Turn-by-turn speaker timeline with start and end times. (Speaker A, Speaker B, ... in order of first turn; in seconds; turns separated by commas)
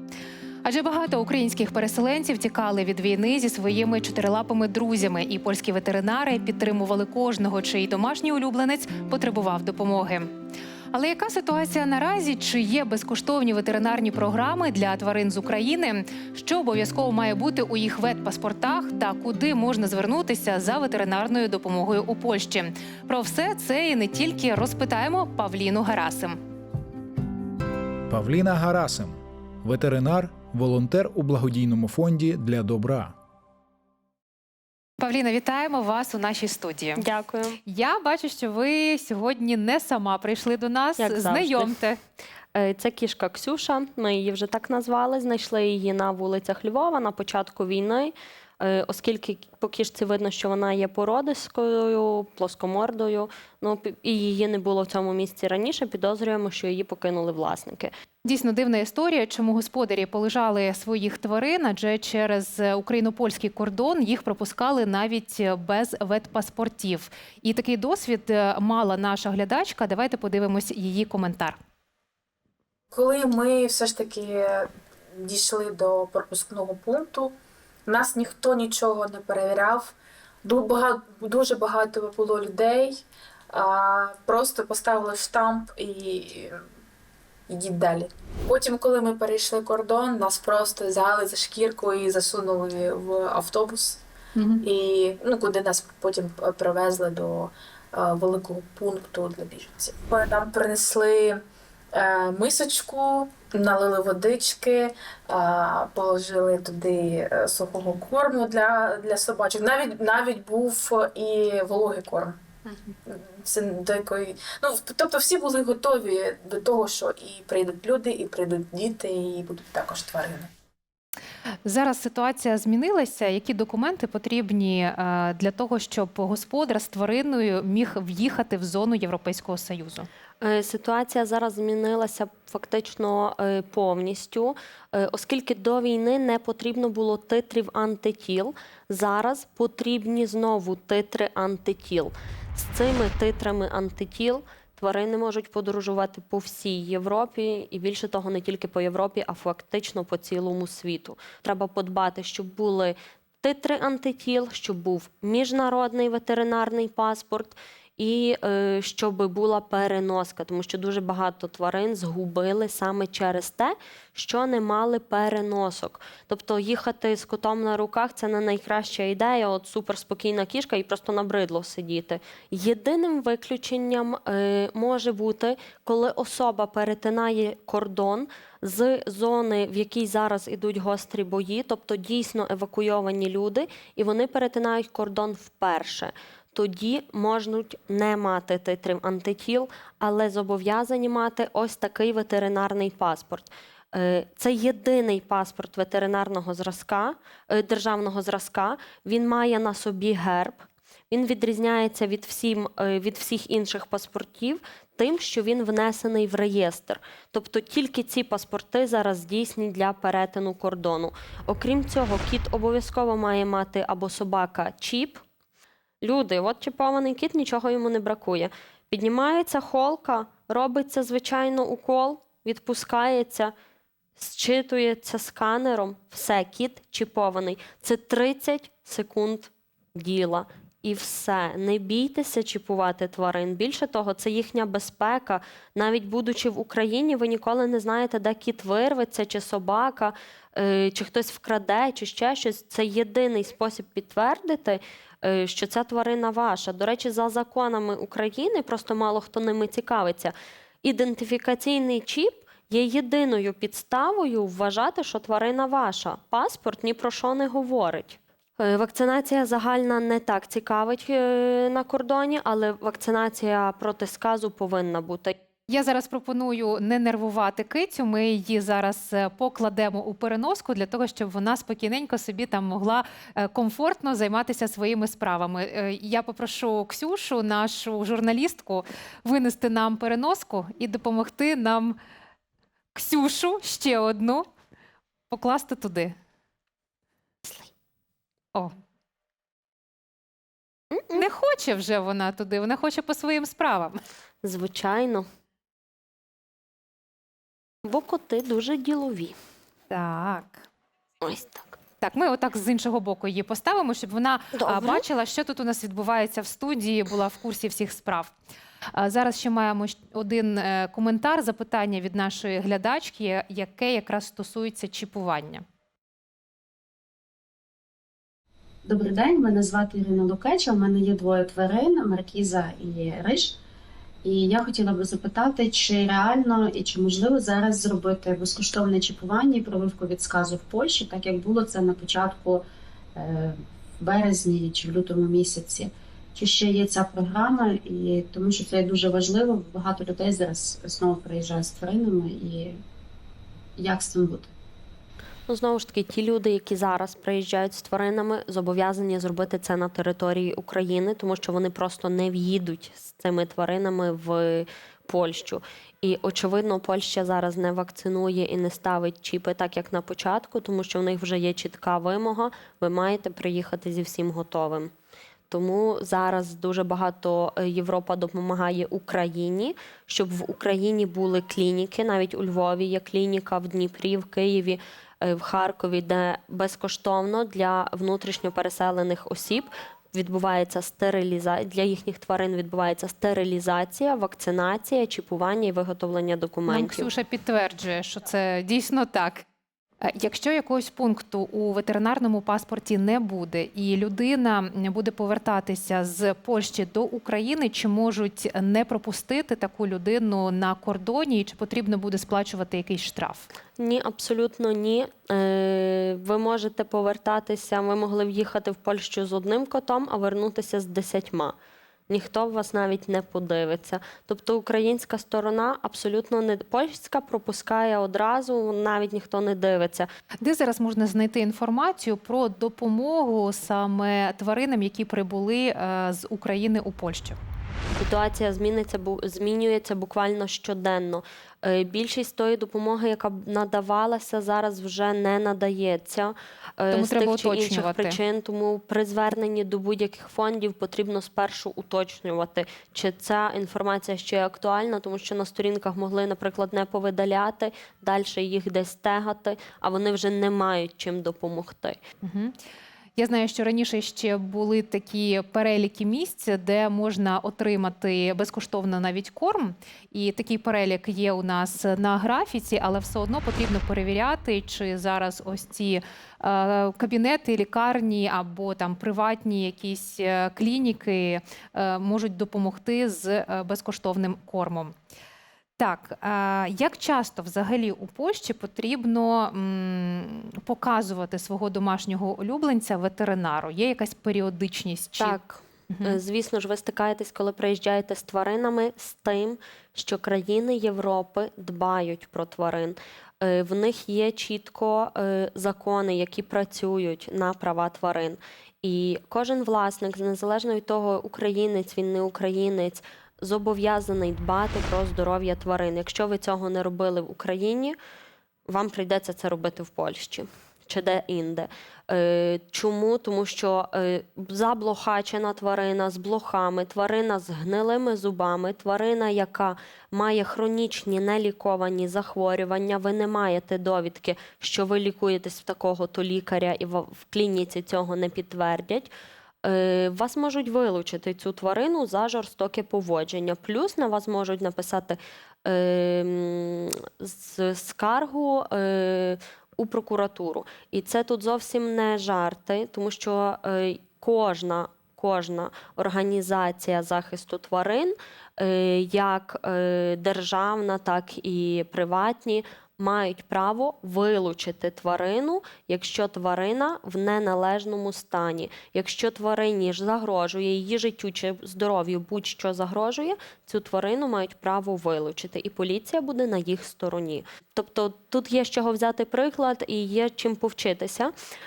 Speaker A: 0.6-10.3, Speaker A: 10.9-26.4, Speaker B: 28.1-33.1, Speaker A: 35.0-37.1, Speaker C: 37.0-37.6, Speaker A: 37.7-42.0, Speaker C: 41.0-41.9, Speaker C: 42.5-57.9, Speaker A: 58.2-71.6, Speaker D: 72.9-74.7, Speaker D: 75.2-77.3, Speaker D: 77.9-86.5, Speaker D: 87.5-101.4, Speaker D: 101.9-112.4, Speaker D: 113.1-120.5, Speaker A: 121.7-130.1, Speaker C: 130.4-215.2, Speaker C: 216.0-223.5, Speaker C: 224.2-265.3, Speaker A: 265.7-282.0, Speaker A: 282.9-284.5, Speaker A: 285.3-286.1, Speaker C: 287.4-287.7, Speaker C: 291.0-291.2, Speaker A: 291.1-294.0, Speaker C: 294.4-295.2, Speaker C: 297.9-299.4, Speaker A: 299.9-300.7, Speaker C: 301.2-301.8, Speaker A: 302.0-308.3, Speaker C: 304.6-305.0, Speaker A: 308.9-315.6, Speaker E: 318.8-323.6, Speaker E: 324.2-332.6, Speaker E: 333.2-342.8, Speaker E: 343.8-344.5, Speaker C: 345.5-364.9, Speaker C: 365.5-387.1, Speaker A: 386.7-389.4, Speaker A: 390.0-403.5, Speaker C: 403.8-411.6, Speaker C: 412.1-420.1, Speaker A: 420.4-427.4, Speaker C: 428.0-452.0, Speaker A: 436.9-438.2, Speaker A: 452.2-452.6, Speaker A: 453.2-474.9, Speaker A: 475.8-485.4, Speaker C: 485.2-508.0, Speaker A: 485.9-486.2, Speaker C: 508.7-529.1, Speaker C: 529.6-571.3